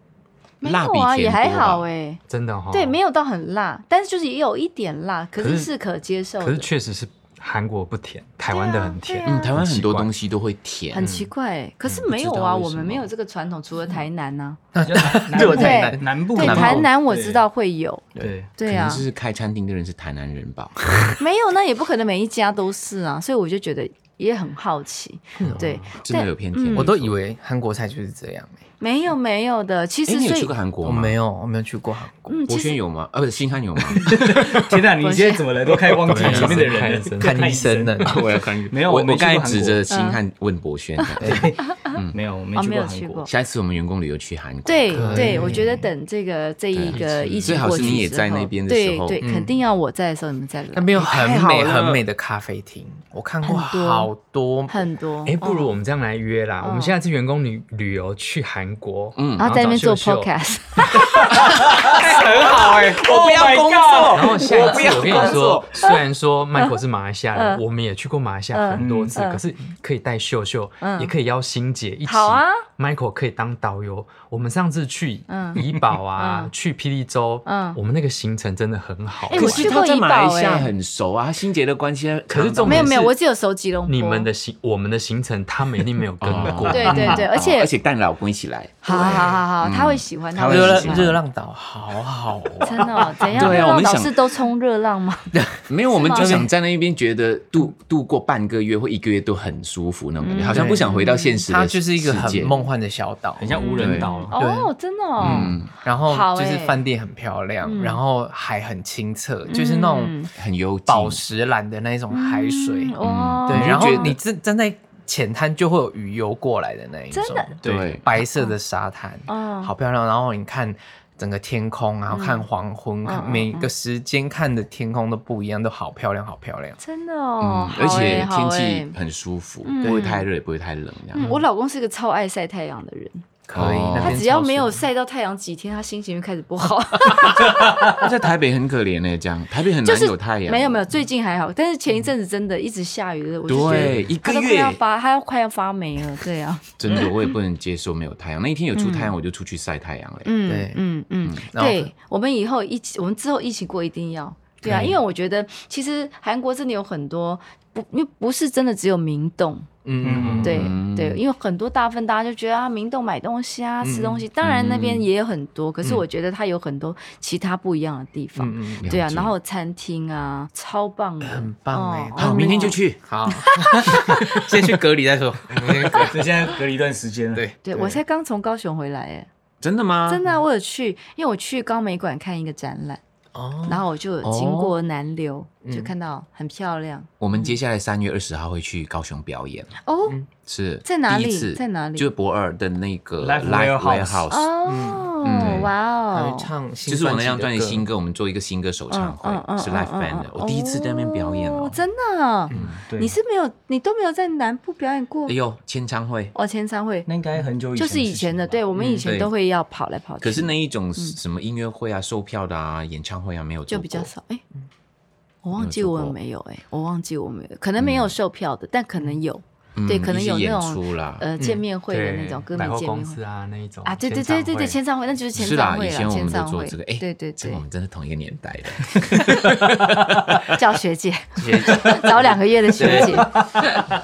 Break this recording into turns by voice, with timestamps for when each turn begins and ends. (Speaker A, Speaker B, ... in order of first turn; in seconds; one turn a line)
Speaker A: 0.6-2.2
Speaker B: 0.6-1.8
Speaker C: 2.3-3.0
Speaker A: 2.7-6.7
Speaker C: 5.4-5.7
Speaker C: 6.4-10.1
Speaker A: 8.5-9.5
Speaker B: 9.2-11.1
Speaker A: 10.9-14.6
Speaker B: 12.1-13.1
Speaker D: 14.7-16.9
Speaker E: 14.8-17.4
Speaker A: 15.3-19.0
Speaker B: 18.2-21.2
Speaker E: 18.2-18.5
Speaker A: 21.2-26.9
Speaker C: 25.4-25.9
Speaker B: 26.0-27.1
Speaker D: 26.7-28.6
Speaker A: 28.8-30.5
Speaker B: 30.1-31.1
Speaker D: 30.8-32.3
Speaker A: 32.3-32.8
Speaker B: 32.5-34.1
Speaker E: 34.0-38.1
Speaker D: 34.2-34.6
Speaker A: 35.0-35.5
Speaker C: 36.0-37.5
Speaker D: 36.1-38.2
Speaker B: 38.0-42.2
Speaker E: 38.7-39.8
Speaker A: 39.9-40.2
Speaker A: 41.0-41.9
Speaker E: 41.2-43.2
Speaker A: 42.5-43.3
Speaker B: 43.2-45.6
Speaker A: 44.6-51.1
Speaker D: 44.9-45.9
Speaker B: 46.7-49.2
Speaker C: 46.9-48.0
Speaker D: 49.2-49.5
Speaker D: 50.7-54.8
Speaker B: 51.0-52.0
Speaker A: 53.4-54.1
Speaker A: 54.7-55.7
Speaker C: 55.2-60.3
Speaker A: 56.6-56.9
Speaker B: 59.1-59.5
Speaker A: 59.4-61.4
Speaker E: 61.2-65.3
Speaker B: 61.8-65.8
Speaker D: 61.9-62.8
Speaker C: 64.1-79.7
Speaker A: 67.3-67.6
Speaker A: 68.5-69.4
Speaker E: 68.8-69.2
Speaker A: 70.8-71.1
Speaker A: 72.0-72.6
Speaker A: 75.3-75.6
Speaker A: 76.2-76.5
Speaker A: 77.5-77.8
Speaker A: 79.2-80.7
Speaker B: 79.3-83.1
Speaker C: 82.3-83.1
Speaker A: 82.6-84.3
Speaker C: 83.8-87.2
Speaker B: 86.2-91.2
Speaker A: 86.7-87.7
Speaker A: 88.8-91.2
Speaker D: 89.0-89.3
Speaker D: 90.4-93.7
Speaker A: 92.6-95.3
Speaker B: 93.2-94.2
Speaker D: 95.3-96.5
Speaker B: 95.7-102.6
Speaker A: 95.9-96.4
Speaker A: 100.2-101.4
Speaker D: 100.4-103.6
Speaker E: 103.4-104.3
Speaker A: 103.5-106.8
Speaker B: 103.8-104.1
Speaker D: 104.3-110.2
Speaker B: 105.2-105.7
Speaker A: 107.6-108.0
Speaker A: 109.5-110.3
Speaker B: 110.3-111.2
Speaker D: 110.9-126.8
Speaker A: 112.1-114.2
Speaker B: 113.0-114.2
Speaker A: 117.1-117.5
Speaker E: 117.6-118.0
Speaker B: 117.6-118.0
Speaker A: 118.1-118.5
Speaker A: 119.3-119.7
Speaker A: 122.1-122.5
Speaker A: 123.0-123.7
Speaker A: 126.8-128.9
Speaker B: 127.4-131.3
Speaker A: 129.6-130.3
Speaker D: 129.8-130.1
Speaker A: 131.1-133.2
Speaker D: 133.5-134.8
Speaker B: 133.5-134.2
Speaker A: 133.9-138.1
Speaker B: 137.8-140.8
Speaker A: 139.8-147.3
Speaker B: 143.5-144.8
Speaker B: 146.8-150.3
Speaker A: 148.7-149.1
Speaker A: 150.2-159.7
Speaker D: 150.5-150.8
Speaker D: 151.5-151.9
Speaker D: 159.8-160.7
Speaker E: 160.0-160.4
Speaker C: 160.1-160.4
Speaker B: 160.4-161.2
Speaker A: 160.4-174.4
Speaker D: 163.8-164.2
Speaker B: 164.4-165.1
Speaker D: 168.3-168.9
Speaker B: 168.8-169.3
Speaker D: 171.2-176.5
Speaker B: 172.2-173.0
Speaker E: 176.1-177.4
Speaker D: 177.3-178.0
Speaker A: 177.6-179.3
Speaker B: 179.6-180.2
Speaker A: 180.1-183.0
Speaker D: 183.3-184.7
Speaker A: 183.6-187.1
Speaker D: 185.6-185.9
Speaker B: 187.2-189.7
Speaker A: 189.8-190.2
Speaker B: 190.4-194.5
Speaker A: 190.8-192.1
Speaker E: 193.2-194.2
Speaker A: 194.3-196.5
Speaker D: 194.7-197.9
Speaker B: 195.2-195.7
Speaker B: 196.8-201.8
Speaker A: 198.9-205.4
Speaker E: 202.6-203.2
Speaker B: 205.3-206.3
Speaker A: 206.3-207.1
Speaker E: 207.1-208.6
Speaker A: 207.8-211.2
Speaker B: 209.0-209.3
Speaker B: 210.2-214.1
Speaker A: 213.7-214.4
Speaker A: 215.4-223.2
Speaker B: 215.6-216.2
Speaker B: 217.8-218.1
Speaker B: 219.8-221.2
Speaker D: 221.4-221.6
Speaker C: 221.9-224.8
Speaker A: 223.8-227.6
Speaker B: 225.3-229.7
Speaker A: 230.4-233.7
Speaker D: 231.4-233.3
Speaker E: 232.8-233.7